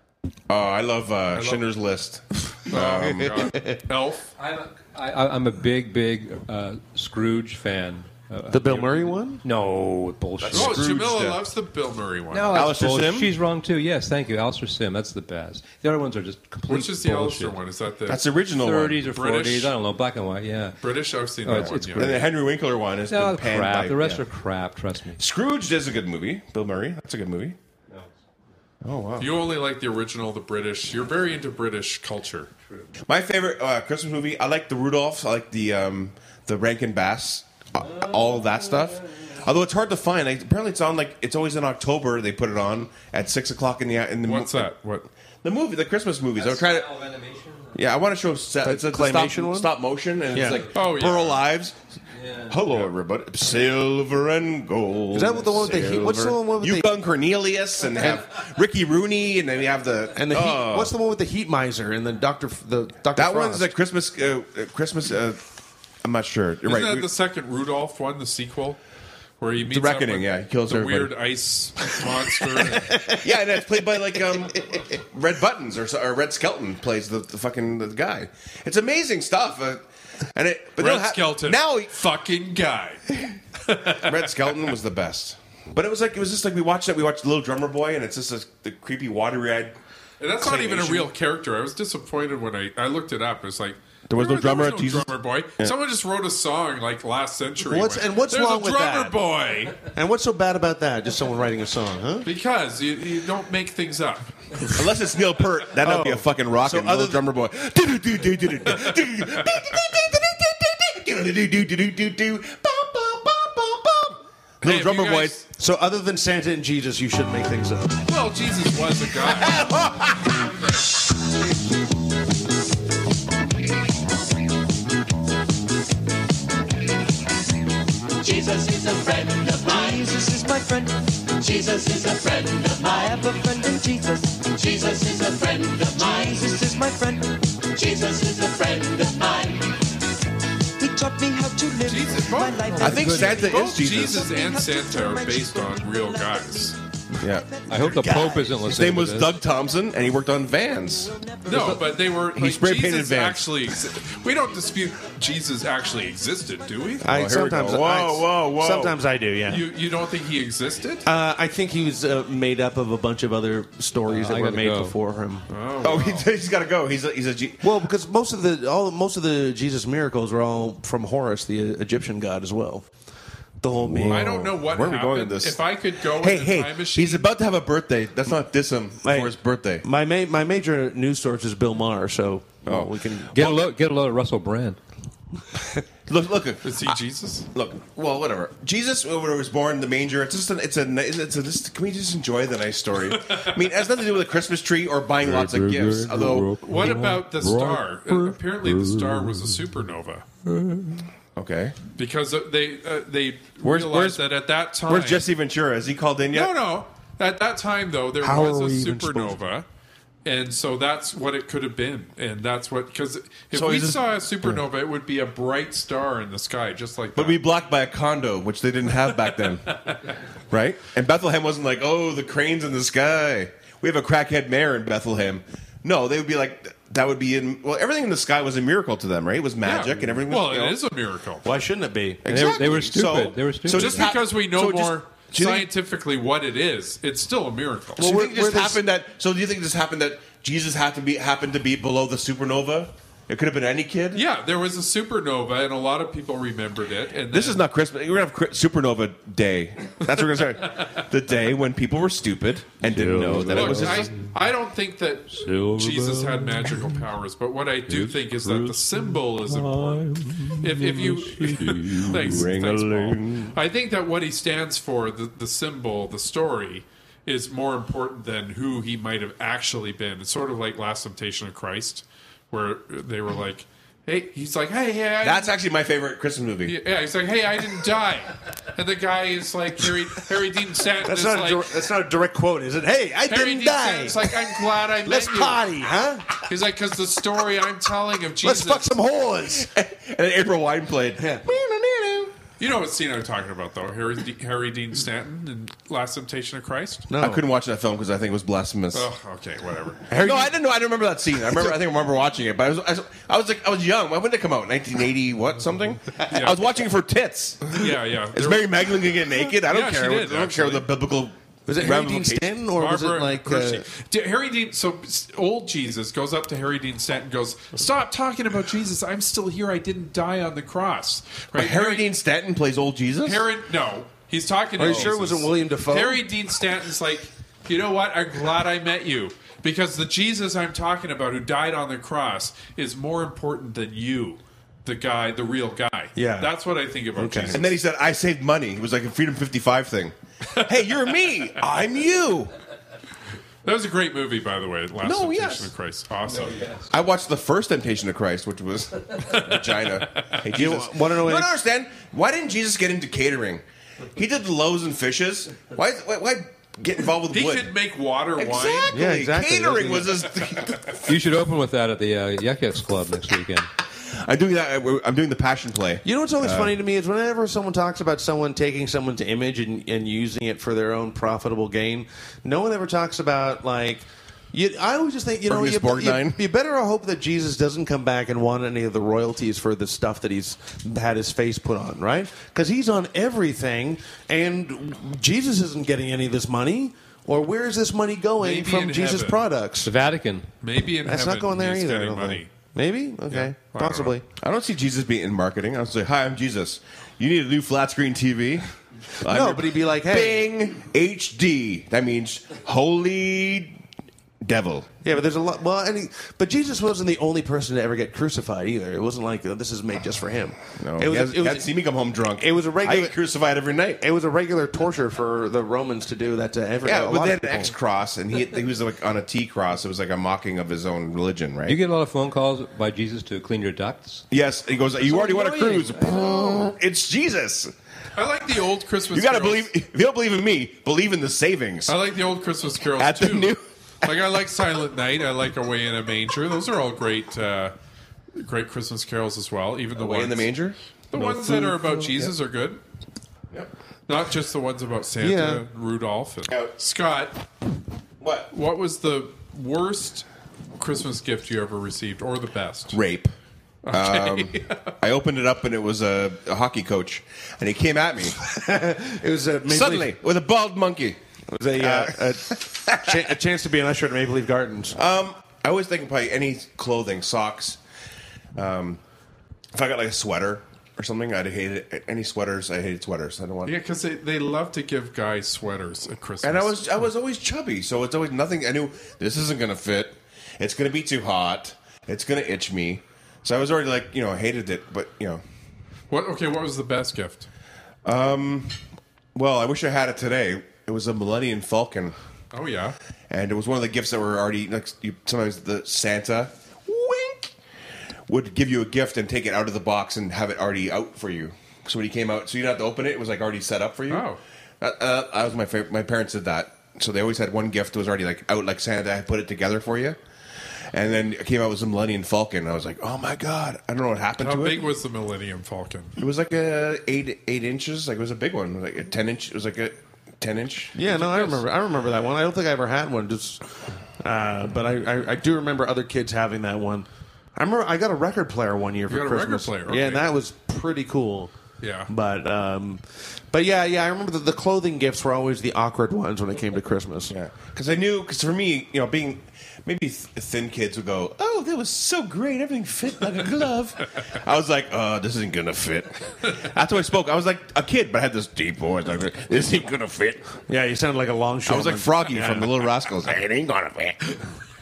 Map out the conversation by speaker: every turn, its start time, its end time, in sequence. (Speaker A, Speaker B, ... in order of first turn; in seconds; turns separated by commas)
Speaker A: 0.5-3.5, Speaker B: 1.3-1.6, Speaker B: 2.7-4.3, Speaker C: 3.4-3.8, Speaker D: 4.4-10.9, Speaker C: 8.5-9.4, Speaker A: 10.4-11.4, Speaker B: 10.5-12.7, Speaker D: 12.3-17.6, Speaker A: 12.5-13.3, Speaker B: 16.7-18.2, Speaker A: 18.1-19.1, Speaker D: 18.6-20.8, Speaker B: 19.1-19.7, Speaker B: 20.8-22.2, Speaker D: 21.4-22.3, Speaker A: 21.6-24.2, Speaker D: 23.1-25.2, Speaker A: 25.2-27.6, Speaker A: 28.8-29.3, Speaker B: 29.2-32.5, Speaker A: 33.1-44.7, Speaker D: 37.9-38.9, Speaker B: 44.2-45.1, Speaker A: 45.4-46.9, Speaker D: 46.4-47.7, Speaker A: 47.7-51.7, Speaker C: 48.6-49.7, Speaker C: 50.3-50.6, Speaker B: 50.7-51.4, Speaker D: 52.1-52.6, Speaker A: 52.5-60.9, Speaker C: 55.1-56.9, Speaker C: 60.1-63.7, Speaker A: 63.1-65.4, Speaker A: 66.0-67.1, Speaker B: 66.6-68.8, Speaker B: 69.4-73.1, Speaker A: 69.6-71.1, Speaker A: 73.1-81.9, Speaker B: 80.8-84.3, Speaker A: 84.0-89.7, Speaker B: 90.2-99.9, Speaker A: 90.4-91.1, Speaker A: 94.1-95.7, Speaker C: 97.6-99.2, Speaker C: 99.9-102.3, Speaker B: 102.2-104.3, Speaker A: 104.7-115.4, Speaker C: 105.8-107.2, Speaker B: 114.6-115.4, Speaker C: 115.6-118.0, Speaker B: 118.1-119.7, Speaker A: 119.4-120.2, Speaker E: 128.2-140.0, Speaker E: 140.8-148.6, Speaker B: 141.8-146.8, Speaker D: 142.7-143.4, Speaker A: 142.8-144.3, Speaker A: 147.2-147.5, Speaker D: 147.7-149.4, Speaker A: 148.6-151.8, Speaker E: 151.1-151.8, Speaker B: 151.4-157.3, Speaker A: 152.3-153.6, Speaker C: 157.0-159.7, Speaker A: 157.0-159.0, Speaker B: 159.5-161.1, Speaker C: 161.0-165.4, Speaker D: 164.1-164.9, Speaker B: 165.5-166.3, Speaker A: 165.8-167.7, Speaker C: 167.6-172.9, Speaker C: 173.6-174.5, Speaker A: 173.8-179.8, Speaker B: 174.1-177.3, Speaker C: 179.0-183.6, Speaker A: 182.7-183.6, Speaker D: 183.3-184.8, Speaker A: 186.1-187.0, Speaker B: 186.6-187.5, Speaker A: 187.5-196.7, Speaker D: 195.2-199.5, Speaker B: 196.6-200.2, Speaker D: 200.5-201.0, Speaker A: 201.3-201.8, Speaker B: 201.9-205.2, Speaker A: 203.6-204.2, Speaker A: 204.8-206.5, Speaker B: 206.3-209.7, Speaker C: 208.2-209.3, Speaker B: 210.2-217.4, Speaker A: 213.5-214.0, Speaker A: 217.1-219.9, Speaker A: 220.5-230.8, Speaker B: 229.6-231.5, Speaker C: 231.4-232.9, Speaker D: 232.3-234.1, Speaker A: 232.3-235.7, Speaker B: 233.7-238.0, Speaker C: 238.0-238.8, Speaker A: 238.0-244.2, Speaker B: 244.1-247.6, Speaker A: 247.3-254.1, Speaker D: 252.8-254.3, Speaker B: 253.4-275.5, Speaker D: 255.3-257.0, Speaker D: 257.9-262.4, Speaker A: 262.1-263.6, Speaker A: 275.2-276.8, Speaker B: 276.6-281.7, Speaker C: 281.0-286.4, Speaker B: 283.2-285.6, Speaker B: 286.4-289.0, Speaker C: 288.4-289.7, Speaker A: 289.5-292.3, Speaker C: 291.2-291.4, Speaker B: 292.6-297.1, Speaker C: 297.1-297.4, Speaker A: 297.2-299.1, Speaker B: 298.9-300.1, Speaker C: 300.1-300.6, Speaker A: 300.1-312.6, Speaker B: 306.3-306.6, Speaker B: 307.7-310.9, Speaker C: 311.7-313.8, Speaker B: 312.8-322.1, Speaker A: 321.5-323.4, Speaker B: 323.2-337.7, Speaker C: 324.8-326.2, Speaker A: 324.8-325.1, Speaker C: 336.1-336.5, Speaker C: 337.1-337.6, Speaker A: 337.5-342.5, Speaker B: 340.5-340.9, Speaker B: 343.6-346.7, Speaker A: 345.0-345.7, Speaker D: 346.5-346.8, Speaker A: 346.9-353.6, Speaker B: 349.2-350.3, Speaker C: 350.4-351.5, Speaker A: 354.1-357.7, Speaker B: 357.3-358.9, Speaker A: 358.4-361.1, Speaker C: 358.9-360.1, Speaker D: 361.0-363.7, Speaker A: 364.0-366.7, Speaker C: 366.0-389.9, Speaker A: 375.5-376.4, Speaker B: 388.4-389.4, Speaker D: 389.8-390.5, Speaker B: 390.6-392.5, Speaker C: 391.0-394.2, Speaker B: 393.3-394.1, Speaker A: 394.4-398.6, Speaker A: 399.2-403.8, Speaker C: 399.2-400.4, Speaker A: 404.4-404.9, Speaker C: 405.0-411.7, Speaker A: 410.8-414.0, Speaker C: 412.4-413.1, Speaker C: 414.0-417.7, Speaker A: 416.8-421.8, Speaker D: 421.6-424.2, Speaker A: 424.3-427.7, Speaker D: 425.0-426.7, Speaker B: 428.1-429.7, Speaker A: 429.1-431.9, Speaker B: 431.9-437.7, Speaker A: 432.9-434.1, Speaker B: 438.4-440.5, Speaker A: 439.9-441.7, Speaker B: 441.1-442.8, Speaker B: 444.1-447.4, Speaker C: 445.2-445.6, Speaker A: 448.2-448.5, Speaker B: 448.5-450.2, Speaker B: 450.8-453.0, Speaker A: 452.9-453.3, Speaker B: 453.8-454.9, Speaker A: 453.9-458.4, Speaker C: 458.4-460.1, Speaker A: 459.7-461.2, Speaker C: 461.5-465.0, Speaker A: 461.7-463.2, Speaker A: 464.9-467.8, Speaker A: 468.5-469.0, Speaker A: 469.7-473.7, Speaker B: 473.6-476.8, Speaker A: 476.4-485.4, Speaker B: 486.1-487.5, Speaker A: 488.0-488.8, Speaker A: 489.3-492.1, Speaker B: 492.5-492.9, Speaker A: 493.3-497.5, Speaker A: 498.3-504.3, Speaker B: 504.1-504.4, Speaker A: 504.8-510.2, Speaker A: 510.9-514.9, Speaker B: 514.4-516.1, Speaker A: 516.2-520.9, Speaker C: 520.9-523.6, Speaker B: 521.1-521.6, Speaker C: 524.2-531.5, Speaker B: 529.1-530.3, Speaker B: 531.8-532.1, Speaker C: 532.1-537.3, Speaker A: 537.3-550.5, Speaker C: 550.7-552.8, Speaker A: 551.6-554.2